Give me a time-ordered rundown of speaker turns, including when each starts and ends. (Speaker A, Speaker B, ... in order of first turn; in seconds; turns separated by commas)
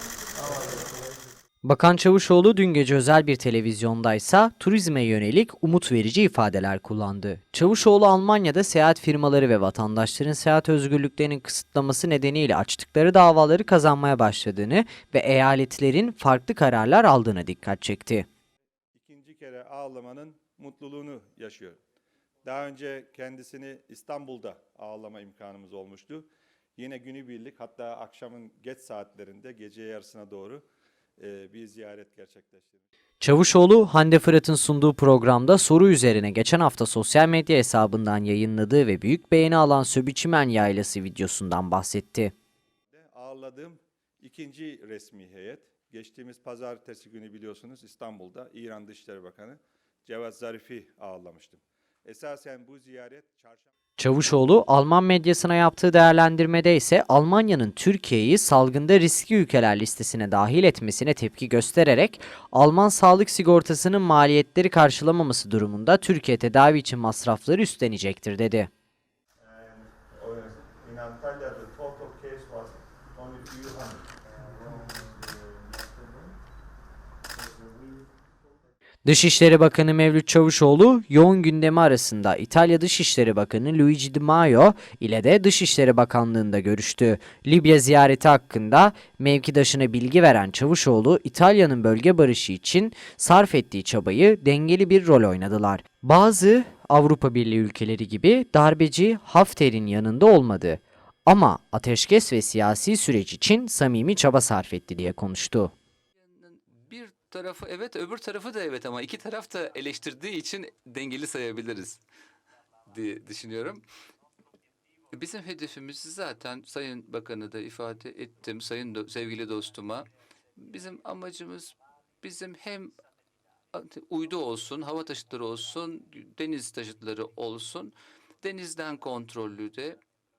Speaker A: 0.4-0.9, Speaker B: 1.6-18.2, Speaker A: 18.9-21.8, Speaker A: 22.4-30.6, Speaker A: 31.2-32.8, Speaker B: 33.2-42.3, Speaker A: 42.9-53.7, Speaker B: 54.0-68.7, Speaker A: 69.4-76.3, Speaker B: 79.0-105.7, Speaker C: 106.2-112.0, Speaker C: 112.9-113.8, Speaker C: 115.1-123.0, Speaker C: 123.7-130.0